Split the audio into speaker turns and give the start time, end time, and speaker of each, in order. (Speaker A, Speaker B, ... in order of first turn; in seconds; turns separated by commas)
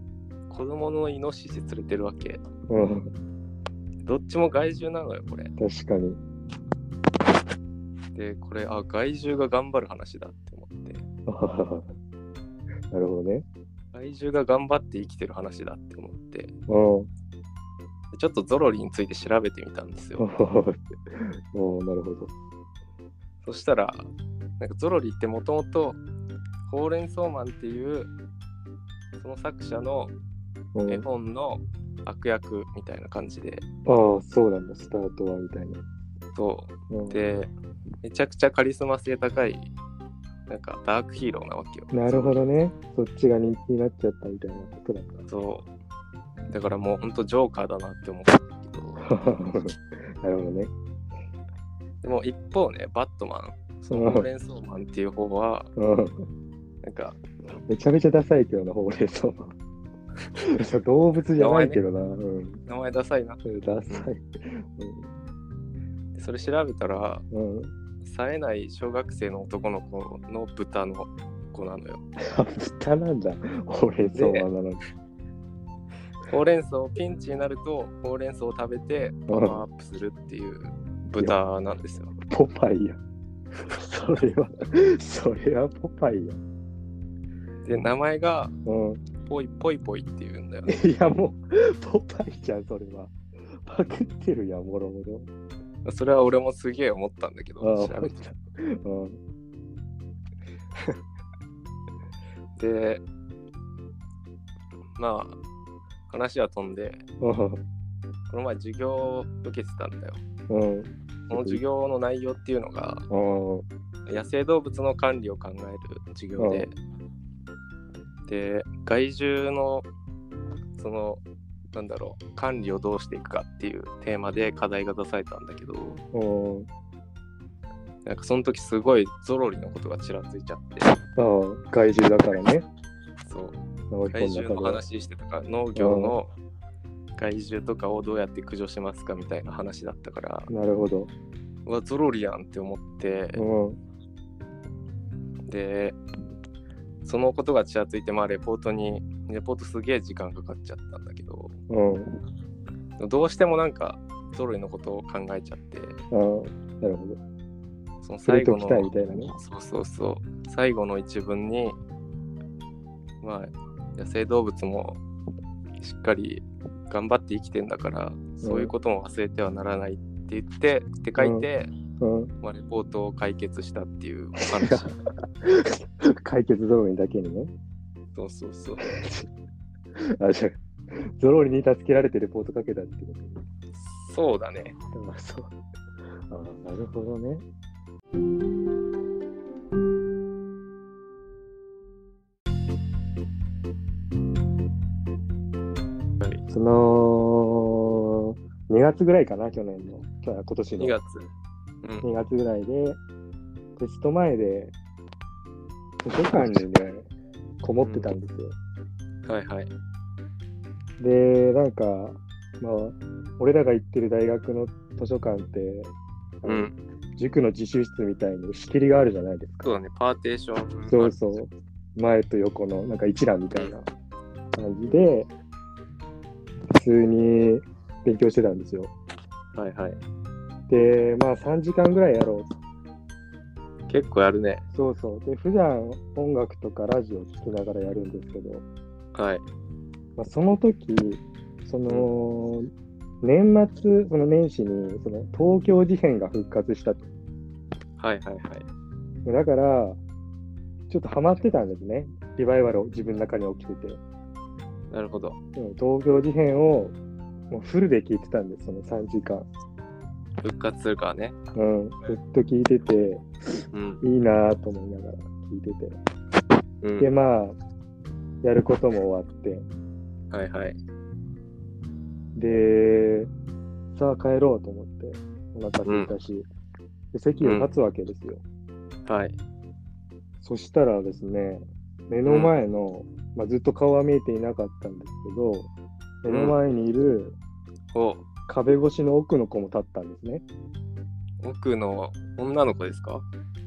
Speaker A: 0.5-2.4, Speaker B: 2.7-3.1, Speaker A: 4.0-5.5, Speaker B: 5.6-6.2, Speaker A: 8.2-11.1, Speaker B: 11.3-11.9, Speaker B: 12.9-13.4, Speaker A: 13.9-16.5, Speaker B: 16.7-17.1, Speaker A: 18.1-20.2, Speaker B: 20.2-20.8, Speaker B: 21.5-22.3, Speaker A: 23.4-26.0, Speaker A: 26.7-28.1, Speaker A: 29.2-30.1, Speaker B: 30.8-31.1, Speaker A: 30.9-33.6, Speaker B: 33.9-35.8, Speaker A: 36.4-37.5, Speaker B: 36.9-37.2, Speaker A: 38.0-39.7, Speaker A: 40.5-42.5, Speaker B: 41.9-45.2, Speaker A: 45.3-45.7, Speaker A: 46.5-49.1, Speaker B: 49.0-50.7, Speaker A: 52.0-55.7, Speaker B: 53.9-54.3, Speaker B: 55.8-56.2, Speaker A: 56.8-57.2, Speaker B: 57.7-59.5, Speaker B: 60.6-62.6, Speaker A: 61.4-61.8, Speaker A: 62.7-64.1, Speaker B: 63.5-65.2, Speaker A: 66.2-67.2, Speaker B: 67.3-67.7, Speaker A: 68.0-72.0, Speaker B: 72.2-74.8, Speaker A: 74.2-74.5, Speaker A: 76.3-82.1, Speaker B: 79.3-79.6, Speaker B: 82.2-83.0, Speaker B: 83.7-86.4, Speaker A: 87.6-88.6, Speaker B: 88.7-89.0, Speaker A: 89.2-90.8, Speaker B: 90.7-93.1, Speaker B: 93.7-95.3, Speaker A: 95.8-98.2, Speaker B: 97.6-99.2, Speaker A: 102.6-103.0, Speaker A: 105.0-105.4, Speaker A: 106.1-107.0, Speaker B: 107.2-107.6, Speaker A: 108.3-110.2, Speaker B: 110.5-111.6, Speaker A: 111.3-113.1, Speaker B: 113.1-113.7, Speaker A: 114.1-116.8, Speaker B: 116.4-116.7, Speaker A: 118.3-119.9, Speaker A: 120.8-121.2, Speaker A: 121.7-126.0, Speaker B: 126.1-126.7, Speaker A: 128.1-130.9, Speaker B: 131.2-132.7, Speaker A: 133.3-136.3, Speaker B: 133.9-134.8, Speaker B: 135.8-136.2, Speaker A: 137.2-140.5, Speaker B: 140.5-141.1, Speaker A: 141.7-143.4, Speaker B: 143.3-143.8, Speaker A: 145.5-146.0, Speaker A: 147.0-151.6, Speaker B: 151.7-152.1, Speaker A: 153.0-156.0, Speaker B: 156.1-157.2, Speaker A: 158.0-161.8, Speaker B: 158.2-159.3, Speaker A: 163.2-165.0, Speaker A: 165.8-171.7, Speaker B: 168.4-168.7, Speaker B: 171.2-171.5, Speaker B: 172.0-172.3, Speaker A: 172.4-174.9, Speaker B: 174.4-174.9, Speaker B: 175.4-177.5, Speaker A: 178.2-178.9, Speaker B: 178.8-179.3, Speaker B: 180.2-180.6, Speaker B: 181.2-183.4, Speaker A: 183.8-184.8, Speaker B: 184.9-185.5, Speaker B: 186.3-187.4, Speaker B: 196.5-201.0, Speaker A: 200.8-201.3, Speaker B: 202.0-203.0, Speaker B: 203.8-204.7, Speaker B: 206.0-207.1, Speaker B: 207.6-208.6, Speaker A: 207.8-208.1, Speaker A: 209.3-209.7, Speaker B: 211.0-219.8, Speaker A: 216.5-216.8, Speaker A: 219.6-221.2, Speaker B: 220.9-223.9, Speaker B: 224.6-225.3, Speaker A: 224.9-225.1, Speaker B: 226.7-228.9, Speaker A: 229.5-230.0, Speaker B: 230.7-232.6, Speaker A: 233.9-234.6, Speaker B: 234.7-238.7, Speaker A: 239.2-239.4, Speaker B: 240.2-242.7, Speaker B: 243.2-247.1, Speaker A: 248.0-248.7, Speaker B: 249.3-250.0, Speaker B: 250.9-254.0, Speaker A: 254.9-255.4, Speaker B: 255.6-257.0, Speaker B: 257.5-259.5, Speaker A: 260.4-261.4, Speaker B: 261.6-263.2, Speaker A: 263.7-264.0, Speaker B: 264.0-266.0, Speaker A: 266.8-267.1, Speaker B: 267.0-267.6, Speaker B: 268.4-269.7, Speaker A: 270.3-270.8, Speaker B: 272.4-273.3, Speaker B: 273.9-276.5, Speaker A: 275.9-276.1, Speaker B: 277.1-278.4, Speaker A: 277.4-277.8, Speaker A: 279.1-279.4, Speaker B: 280.4-285.7, Speaker A: 282.3-282.5, Speaker B: 286.2-287.4, Speaker A: 286.3-286.6, Speaker A: 287.9-288.2, Speaker B: 288.5-290.4, Speaker A: 291.4-293.2